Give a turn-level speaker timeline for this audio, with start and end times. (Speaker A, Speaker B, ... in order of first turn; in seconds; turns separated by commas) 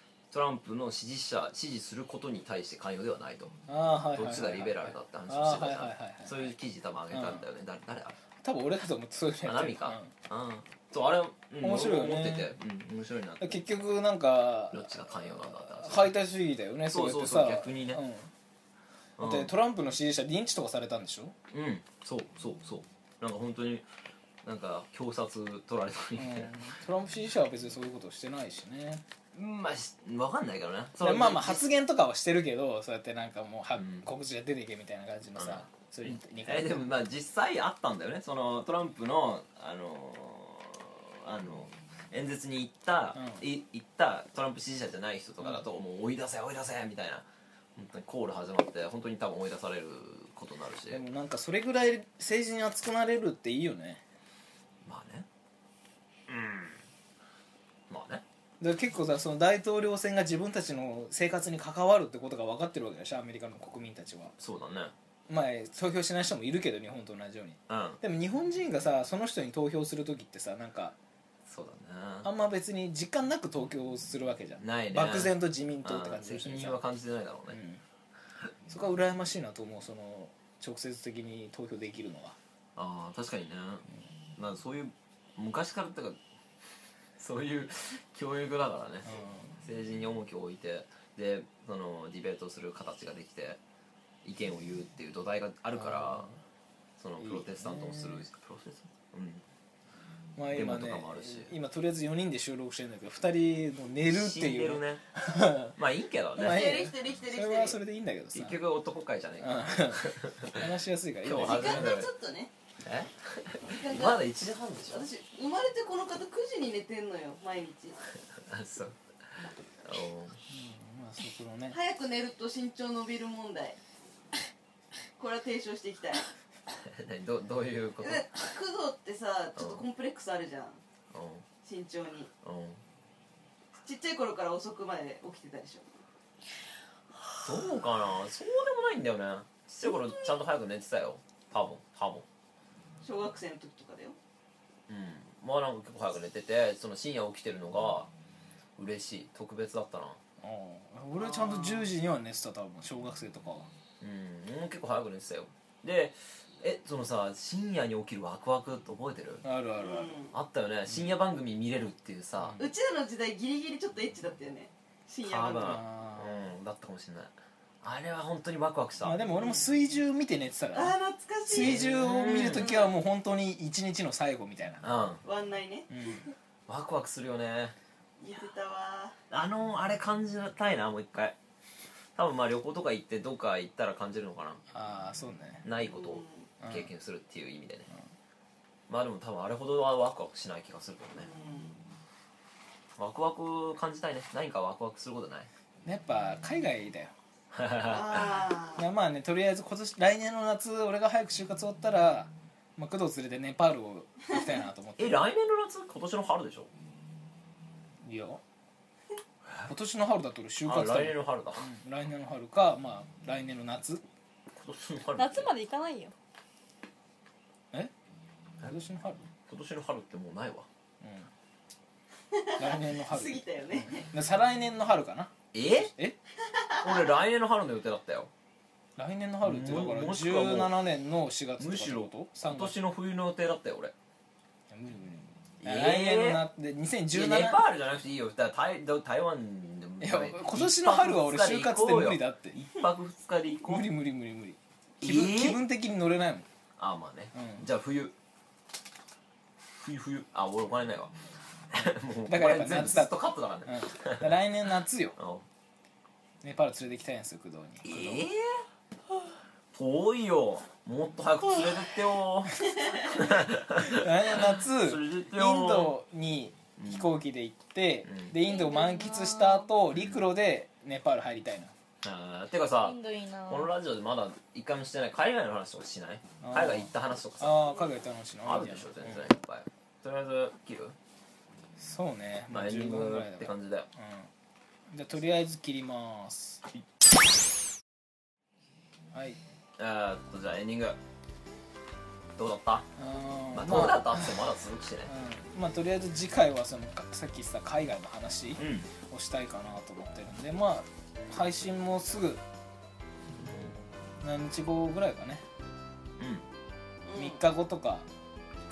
Speaker A: 0.3-3.5, Speaker B: 3.7-6.5, Speaker A: 4.1-8.2, Speaker B: 7.1-7.5, Speaker B: 8.4-10.1, Speaker A: 9.4-13.6, Speaker B: 11.6-12.5, Speaker B: 13.4-18.3, Speaker A: 14.7-16.1, Speaker A: 16.9-18.0, Speaker A: 19.2-19.5, Speaker B: 19.2-21.3, Speaker A: 21.5-23.9, Speaker A: 24.4-26.6, Speaker B: 26.1-29.0, Speaker A: 29.3-31.7, Speaker B: 31.0-37.0, Speaker A: 33.7-34.1, Speaker A: 35.4-51.0, Speaker B: 43.1-43.4, Speaker B: 50.9-54.0, Speaker A: 54.8-55.2, Speaker A: 56.3-56.8, Speaker A: 57.9-58.2, Speaker B: 58.6-64.3, Speaker A: 64.4-64.9, Speaker B: 65.3-71.0, Speaker A: 67.7-68.0, Speaker A: 71.5-72.3, Speaker B: 72.2-76.8, Speaker A: 74.6-77.6, Speaker B: 77.5-77.8, Speaker B: 78.7-82.4, Speaker A: 82.8-83.8, Speaker A: 84.4-86.2, Speaker A: 87.2-93.6, Speaker B: 89.0-89.6, Speaker A: 94.2-96.3, Speaker B: 95.7-96.4, Speaker A: 97.0-99.4, Speaker B: 97.2-98.2, Speaker B: 100.3-105.7, Speaker A: 100.5-101.5, Speaker A: 104.0-105.0, Speaker A: 105.7-106.7, Speaker B: 106.4-108.6, Speaker C: 106.4-107.8, Speaker A: 108.3-110.7, Speaker B: 109.4-111.9, Speaker A: 111.2-112.1, Speaker C: 111.3-112.5, Speaker A: 112.8-115.0, Speaker C: 113.6-114.2, Speaker C: 114.9-118.0, Speaker A: 118.4-119.0, Speaker A: 119.8-120.4, Speaker B: 120.5-121.8, Speaker C: 121.7-123.8, Speaker C: 125.2-126.3, Speaker A: 126.8-128.3, Speaker C: 128.0-130.8, Speaker A: 129.6-129.8, Speaker A: 131.1-131.4, Speaker C: 131.6-132.3, Speaker A: 132.4-132.8, Speaker C: 133.8-136.0, Speaker A: 137.4-142.2, Speaker C: 143.0-144.2, Speaker A: 144.9-148.1, Speaker A: 148.8-150.2, Speaker B: 150.4-153.7, Speaker C: 151.2-151.9, Speaker A: 154.0-159.4, Speaker B: 159.4-160.1, Speaker C: 159.8-160.3, Speaker A: 160.3-162.6, Speaker B: 162.4-162.7, Speaker C: 162.6-165.8, Speaker A: 165.2-169.2, Speaker B: 165.6-166.5, Speaker B: 169.0-170.9, Speaker C: 169.3-169.6, Speaker C: 170.7-171.8, Speaker B: 171.4-174.9, Speaker A: 171.5-172.8, Speaker C: 172.5-172.9, Speaker A: 174.8-175.2, Speaker C: 175.2-175.9, Speaker B: 175.9-176.3, Speaker A: 176.7-177.7, Speaker C: 178.2-179.2, Speaker A: 179.3-181.4, Speaker A: 182.2-184.6, Speaker B: 184.7-185.6, Speaker A: 185.6-187.9, Speaker C: 185.8-186.5, Speaker B: 186.6-186.9, Speaker A: 188.9-191.3, Speaker C: 191.2-191.8, Speaker A: 193.0-195.5, Speaker B: 195.8-197.1, Speaker A: 197.5-198.3, Speaker C: 197.8-198.8, Speaker B: 198.8-205.2, Speaker A: 205.0-206.7, Speaker B: 208.0-208.4, Speaker B: 209.6-214.0, Speaker A: 210.6-211.7, Speaker A: 214.5-215.5, Speaker D: 215.2-216.1, Speaker B: 218.6-219.3, Speaker A: 219.5-220.7, Speaker B: 221.0-221.3, Speaker C: 222.3-224.1, Speaker B: 222.6-226.2, Speaker A: 225.5-225.9, Speaker C: 226.6-226.9, Speaker A: 226.8-228.3, Speaker B: 229.0-232.8, Speaker A: 229.4-230.8, Speaker A: 231.6-233.9, Speaker B: 234.7-237.6, Speaker A: 235.6-236.4, Speaker A: 237.1-243.9, Speaker B: 240.0-242.6, Speaker B: 243.7-246.5, Speaker A: 245.0-245.6, Speaker A: 246.8-248.1, Speaker B: 247.3-247.6, Speaker A: 249.8-251.1, Speaker A: 251.7-254.4, Speaker B: 252.3-255.2, Speaker A: 255.2-255.4, Speaker B: 256.4-258.2, Speaker A: 257.8-258.6, Speaker A: 259.7-265.9, Speaker B: 262.7-263.0, Speaker B: 263.8-271.7, Speaker A: 266.8-267.1, Speaker A: 268.0-268.4, Speaker D: 268.4-269.7, Speaker A: 269.9-270.2, Speaker A: 272.0-277.7, Speaker D: 272.8-273.7, Speaker B: 276.4-279.3, Speaker A: 278.4-280.9, Speaker B: 281.8-284.3, Speaker A: 282.5-283.9, Speaker B: 284.9-286.6, Speaker B: 289.1-289.4, Speaker A: 289.8-291.0, Speaker A: 292.4-292.9, Speaker B: 292.9-294.4, Speaker A: 293.5-295.1, Speaker B: 295.1-302.4, Speaker A: 298.6-298.9, Speaker A: 303.3-303.8, Speaker B: 304.2-305.4, Speaker A: 306.2-306.4, Speaker C: 307.1-307.4, Speaker B: 307.1-308.1